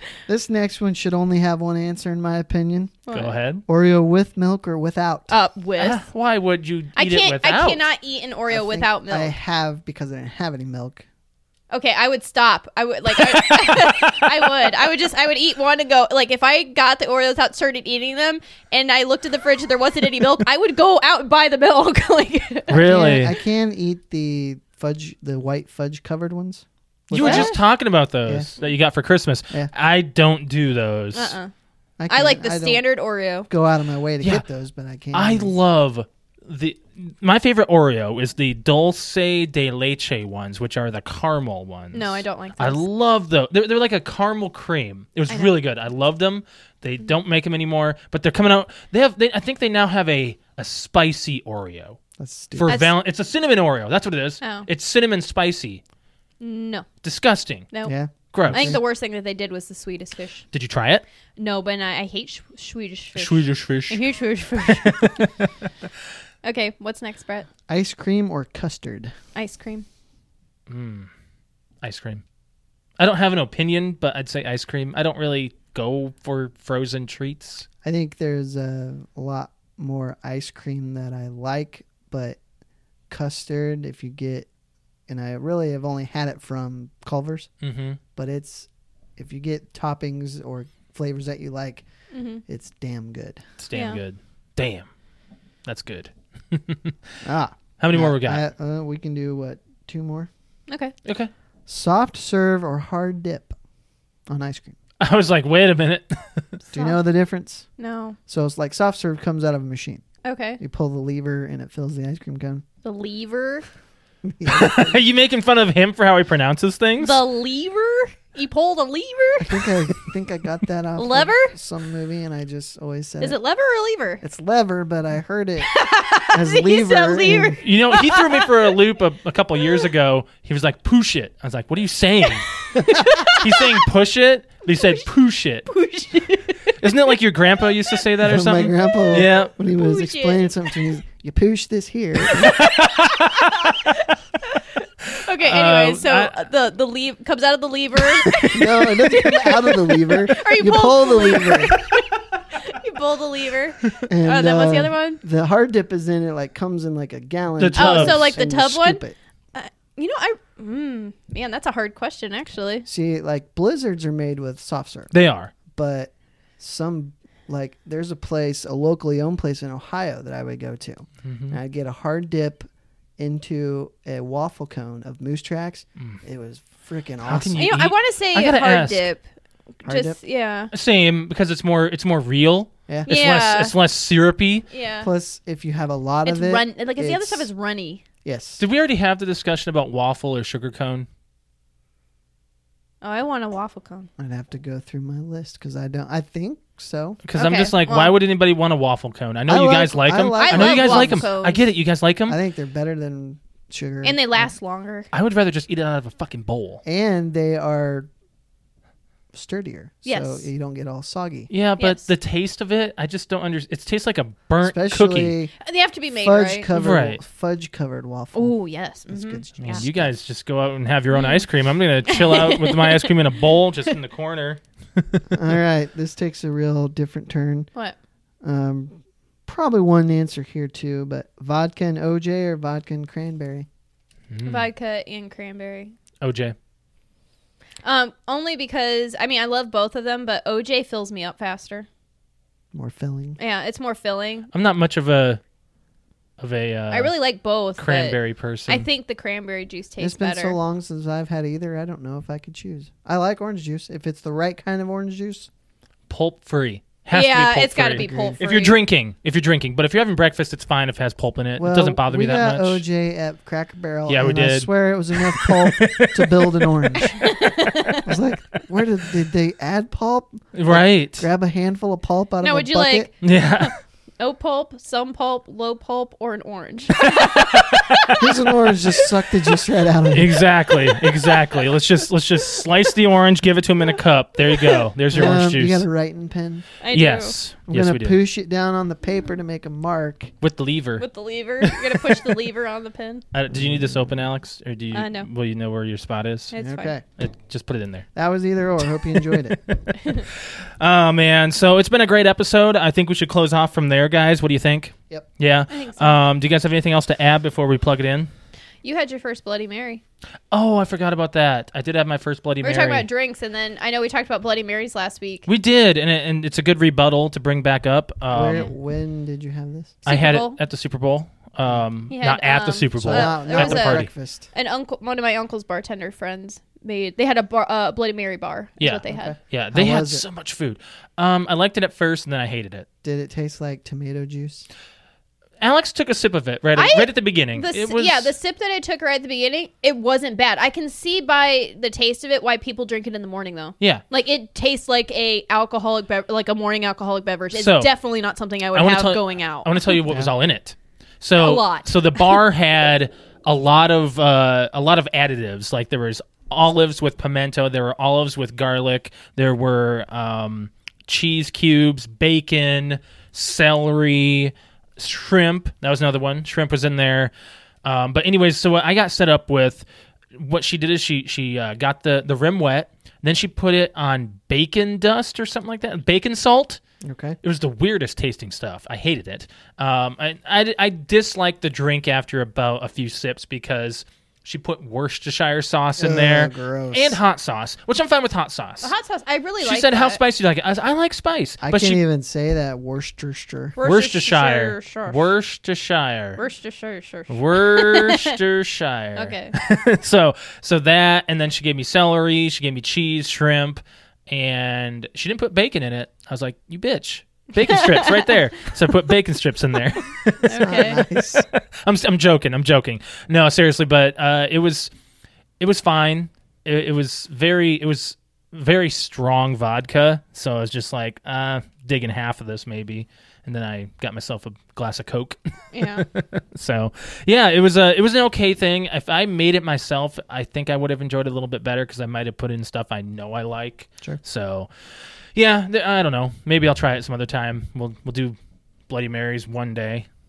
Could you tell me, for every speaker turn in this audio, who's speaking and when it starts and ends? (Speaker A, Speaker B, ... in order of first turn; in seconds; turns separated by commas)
Speaker A: 0.3-3.0, Speaker B: 3.1-3.4, Speaker C: 3.1-3.6, Speaker A: 3.7-5.3, Speaker B: 5.3-6.0, Speaker C: 5.8-7.9, Speaker B: 7.0-9.3, Speaker A: 8.5-11.0, Speaker B: 11.7-22.8, Speaker C: 13.2-14.5, Speaker A: 22.7-27.6, Speaker C: 22.7-23.3, Speaker C: 27.1-31.4, Speaker B: 27.1-27.6, Speaker A: 28.2-28.5, Speaker B: 31.1-31.5, Speaker A: 32.0-32.8, Speaker B: 32.1-33.5, Speaker A: 33.5-35.5, Speaker C: 35.1-52.0, Speaker B: 41.9-42.8, Speaker A: 52.2-52.7, Speaker C: 52.5-55.8, Speaker B: 52.7-52.9, Speaker B: 54.4-54.7, Speaker B: 56.4-56.9, Speaker C: 57.0-57.7, Speaker A: 57.8-58.8, Speaker C: 58.3-58.8, Speaker B: 58.5-60.5, Speaker C: 60.5-61.0, Speaker B: 61.4-65.0, Speaker C: 63.1-65.7, Speaker B: 66.4-67.5, Speaker A: 67.7-69.1, Speaker B: 69.3-69.8, Speaker C: 70.7-71.1, Speaker C: 71.8-72.2, Speaker C: 73.0-77.7, Speaker A: 77.8-82.4, Speaker A: 83.1-84.5, Speaker A: 85.1-87.5, Speaker C: 87.6-88.0, Speaker A: 88.2-91.8, Speaker B: 92.1-92.4, Speaker A: 92.5-93.4, Speaker C: 93.6-94.9, Speaker B: 93.7-94.0, Speaker C: 95.6-97.1, Speaker A: 97.2-100.3, Speaker C: 97.8-98.4, Speaker B: 100.7-100.9, Speaker C: 101.0-101.3, Speaker A: 101.7-103.5, Speaker A: 104.3-104.8, Speaker C: 105.0-106.4, Speaker B: 106.6-107.0, Speaker A: 106.7-107.7, Speaker B: 107.8-108.2, Speaker A: 108.3-110.0, Speaker B: 110.2-110.6, Speaker A: 110.6-112.6, Speaker B: 112.8-113.6, Speaker A: 114.2-115.0, Speaker C: 114.5-117.2, Speaker B: 117.0-119.6, Speaker A: 119.4-123.4, Speaker B: 121.0-121.5, Speaker B: 123.2-124.2, Speaker A: 124.2-125.7, Speaker B: 125.6-128.8, Speaker A: 126.3-127.6, Speaker C: 127.6-135.7, Speaker B: 129.6-129.9, Speaker B: 132.6-133.8, Speaker B: 135.7-137.1, Speaker C: 136.8-139.5, Speaker A: 138.2-142.6, Speaker B: 139.7-140.5, Speaker C: 142.4-143.7, Speaker B: 143.1-155.2, Speaker C: 145.1-146.3, Speaker A: 148.4-151.8, Speaker A: 154.0-159.2, Speaker C: 157.6-158.4, Speaker B: 157.8-159.0, Speaker B: 159.5-162.8, Speaker A: 162.8-165.1, Speaker C: 165.1-165.5, Speaker A: 165.7-177.6, Speaker C: 171.2-171.6, Speaker C: 177.2-179.0, Speaker B: 177.6-179.2, Speaker A: 179.8-180.2, Speaker B: 179.8-180.7, Speaker C: 180.7-184.7, Speaker A: 182.9-183.1, Speaker B: 183.1-183.8, Speaker B: 184.7-185.1, Speaker A: 185.0-187.5, Speaker B: 186.2-188.0, Speaker A: 188.2-188.6, Speaker C: 188.6-191.1, Speaker B: 193.0-194.1, Speaker A: 194.2-197.2, Speaker C: 197.2-202.4, Speaker B: 197.3-198.2, Speaker A: 199.5-201.3, Speaker B: 200.3-201.6, Speaker A: 202.3-204.5, Speaker B: 204.0-205.1, Speaker C: 205.1-206.8, Speaker A: 206.8-208.1, Speaker A: 209.3-211.5, Speaker B: 210.0-210.5, Speaker C: 211.5-215.3, Speaker B: 211.8-212.1, Speaker A: 214.6-215.5, Speaker B: 215.6-216.7, Speaker A: 216.2-218.6, Speaker C: 216.7-217.2, Speaker B: 218.3-219.8, Speaker A: 219.1-220.1, Speaker C: 219.6-225.4, Speaker B: 221.1-221.5, Speaker B: 222.0-223.1, Speaker A: 225.3-227.7, Speaker A: 228.4-233.7, Speaker C: 234.3-234.7, Speaker B: 234.4-235.9, Speaker C: 236.2-236.5, Speaker B: 237.8-241.9, Speaker A: 242.7-243.4, Speaker B: 243.4-244.5, Speaker C: 244.5-245.4, Speaker C: 246.4-247.2, Speaker B: 246.9-250.6, Speaker C: 247.8-248.9, Speaker A: 250.0-255.5, Speaker C: 256.1-262.8, Speaker B: 257.1-258.8, Speaker A: 257.9-258.4, Speaker A: 261.6-267.3, Speaker C: 264.1-267.0, Speaker B: 267.0-268.1, Speaker A: 268.0-273.1, Speaker C: 270.5-271.3, Speaker B: 272.4-278.2, Speaker C: 273.2-273.7, Speaker C: 277.0-278.5, Speaker A: 278.2-280.4, Speaker C: 280.1-285.9, Speaker B: 284.5-284.8, Speaker A: 285.1-286.6, Speaker B: 286.8-287.4, Speaker C: 286.9-288.2, Speaker A: 287.7-290.3, Speaker C: 290.4-291.1, Speaker B: 291.0-293.2, Speaker C: 291.6-292.4, Speaker C: 293.3-296.5, Speaker B: 294.9-295.3, Speaker B: 296.5-296.9, Speaker A: 296.6-297.0, Speaker C: 297.2-298.1, Speaker A: 298.1-299.6, Speaker C: 299.0-308.3, Speaker B: 305.7-306.2, Speaker B: 308.8-310.0, Speaker C: 310.5-313.1, Speaker B: 312.6-315.5, Speaker C: 315.5-318.7, Speaker A: 318.3-320.0, Speaker C: 320.0-324.1, Speaker B: 320.1-320.6, Speaker B: 322.1-329.3, Speaker A: 323.0-324.5, Speaker C: 328.8-332.9, Speaker A: 329.1-330.2, Speaker A: 333.0-334.7, Speaker C: 335.6-338.3, Speaker B: 336.8-350.0, Speaker C: 347.5-347.9, Speaker C: 348.7-367.3, Speaker B: 351.4-352.4, Speaker C: 367.8-376.8, Speaker A: 377.0-377.4, Speaker C: 377.4-388.9, Speaker A: 385.9-387.2, Speaker B: 388.8-390.2, Speaker C: 389.6-392.0, Speaker A: 391.6-393.8, Speaker B: 393.8-395.2, Speaker C: 393.8-396.4, Speaker B: 396.4-398.4, Speaker C: 397.3-414.9, Speaker B: 399.1-399.5, Speaker B: 407.6-408.3, Speaker B: 410.4-411.0, Speaker A: 410.5-411.4, Speaker C: 415.6-434.7, Speaker B: 425.7-426.0, Speaker C: 435.3-438.4, Speaker C: 438.9-440.1